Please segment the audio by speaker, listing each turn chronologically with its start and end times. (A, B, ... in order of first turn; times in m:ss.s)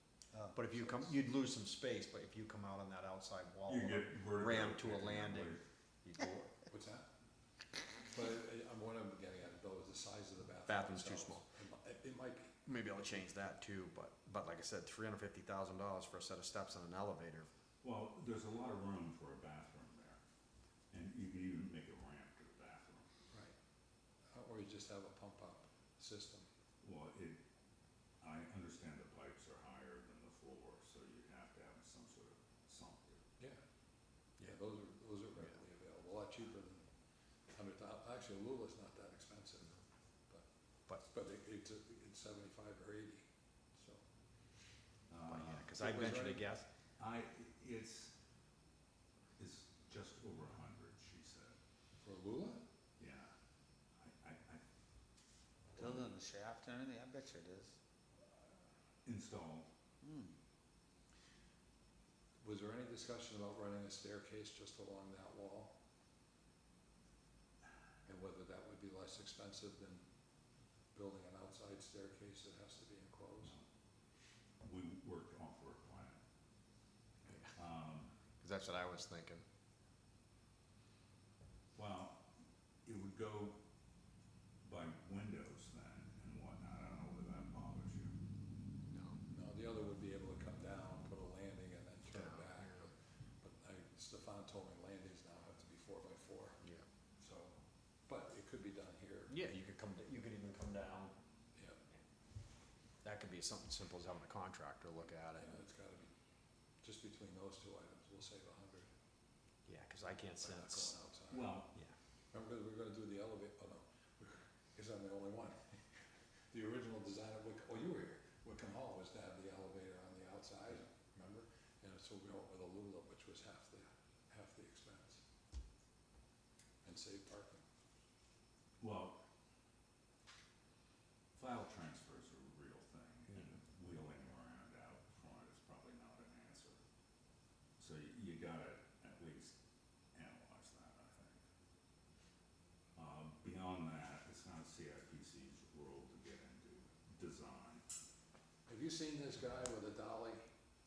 0:00.5-0:06.5 A
0:00.8-0:01.1 B
0:03.7-0:05.6 C
0:06.7-0:07.1 B
0:08.0-0:12.6 B
0:10.6-0:11.4 A
0:12.6-0:17.5 A
0:17.8-0:20.2 C
0:20.9-0:23.1 C
0:23.3-0:23.5 B
0:24.3-0:26.5 B
0:26.8-0:27.4 C
0:28.2-0:33.2 C
0:34.4-0:36.9 B
0:37.5-0:39.8 B
0:41.0-0:44.0 B
0:45.1-0:45.8 C
0:45.2-0:46.6 A
0:45.8-0:46.5 B
0:47.0-0:48.1 C
0:49.4-0:51.5 C
0:52.0-0:52.6 B
0:53.0-0:53.3 C
0:54.0-0:54.6 C
0:55.7-0:57.7 D
0:55.8-0:56.1 C
0:59.0-0:59.7 C
1:00.0-1:00.3 D
1:02.4-1:05.7 B
1:08.0-1:10.0 B
1:10.9-1:13.5 B
1:14.6-1:16.2 C
1:17.3-1:17.5 A
1:17.5-1:18.1 C
1:18.4-1:19.4 A
1:21.8-1:22.2 C
1:22.8-1:23.6 C
1:24.6-1:28.1 C
1:28.9-1:29.2 A
1:29.3-1:36.7 B
1:32.1-1:32.9 A
1:37.2-1:39.4 B
1:39.3-1:41.1 A
1:41.5-1:41.8 B
1:43.0-1:45.6 A
1:45.4-1:46.1 B
1:46.8-1:48.9 B
1:49.6-1:51.0 A
1:50.4-1:51.6 B
1:51.3-1:51.7 C
1:52.3-1:55.8 B
1:56.5-2:05.2 B
2:06.8-2:07.6 B
2:08.8-2:09.2 C
2:11.4-2:16.8 C
2:17.8-2:19.6 C
2:20.1-2:21.4 C
2:23.0-2:27.8 C
2:28.7-2:30.4 B